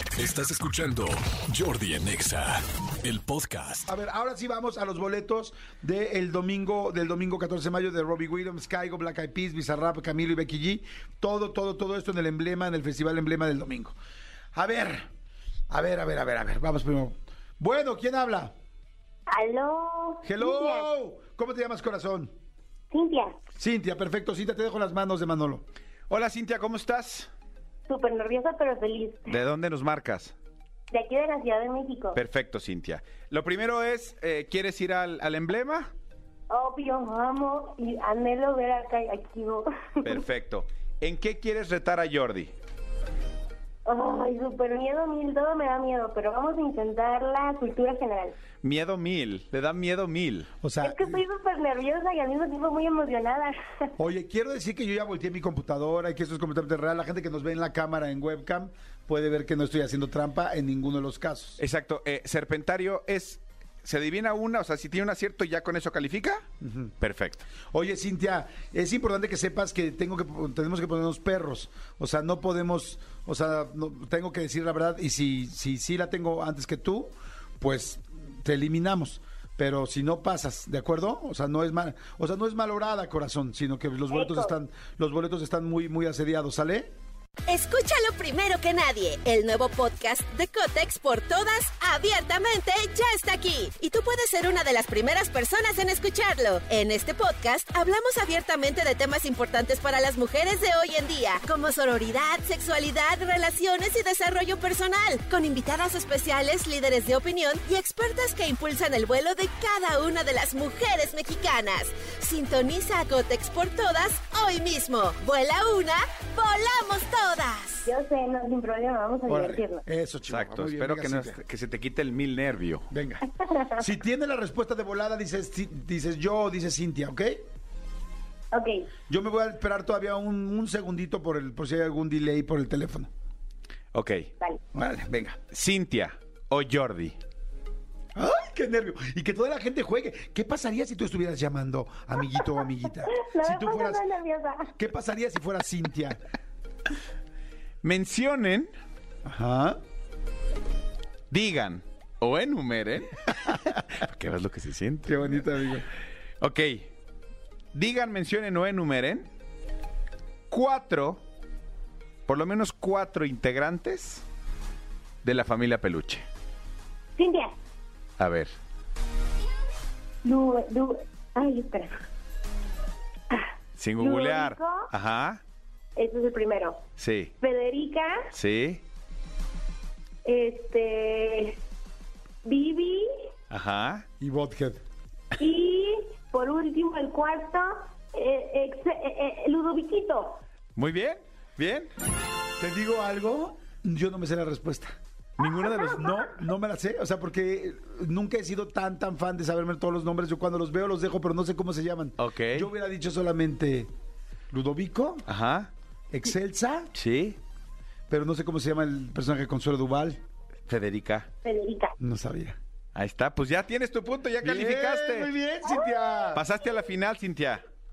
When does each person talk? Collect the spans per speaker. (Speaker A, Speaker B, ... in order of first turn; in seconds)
Speaker A: 0.1-3.9
Speaker B: 3.9-13.9, 14.5-15.1, 15.7-18.5, 20.2-22.3, 23.6-25.6, 50.6-51.2, 54.0-61.6, 66.6-66.9, 67.7-86.9, 119.3-121.4, 122.9-123.2, 123.8-127.4, 129.1-133.1, 134.7-135.4, 138.1-144.0, 144.8-146.2, 149.2-149.8, 155.1-155.8, 184.2-184.8, 192.6-203.9, 204.5-205.2, 206.1-206.9, 208.1-210.2, 212.0-212.6, 214.4-216.4
Speaker C: 19.3-20.9, 22.9-23.4, 27.9-29.3, 30.9-32.2, 36.5-40.2, 43.9-48.4, 50.8-53.9, 84.1-84.5, 117.8-119.8, 128.5-128.8, 143.1-144.7, 167.2-167.5, 170.2-172.0, 174.0-174.8, 175.9-176.8, 177.4-178.3, 180.2-181.6, 182.4-183.1, 185.4-190.4, 211.4-212.0
Speaker D: 26.1-27.3, 29.3-30.3, 32.1-35.9, 40.0-42.5, 48.6-50.5, 61.6-66.5, 67.0-67.4, 120.3-122.9, 133.9-134.3, 135.5-137.2, 147.8-148.7, 151.3-155.3, 156.4-156.9, 157.7-159.3, 160.5-161.2, 162.3-164.2, 165.2-166.2, 168.2-168.5, 173.8-175.4, 177.0-177.3, 178.3-178.8, 183.5-184.1, 190.8-191.9, 195.4-195.8, 202.2-202.7, 205.3-205.7, 206.9-207.4, 210.7-211.3, 212.9-215.3, 216.3-217.6
Speaker E: 87.5-117.9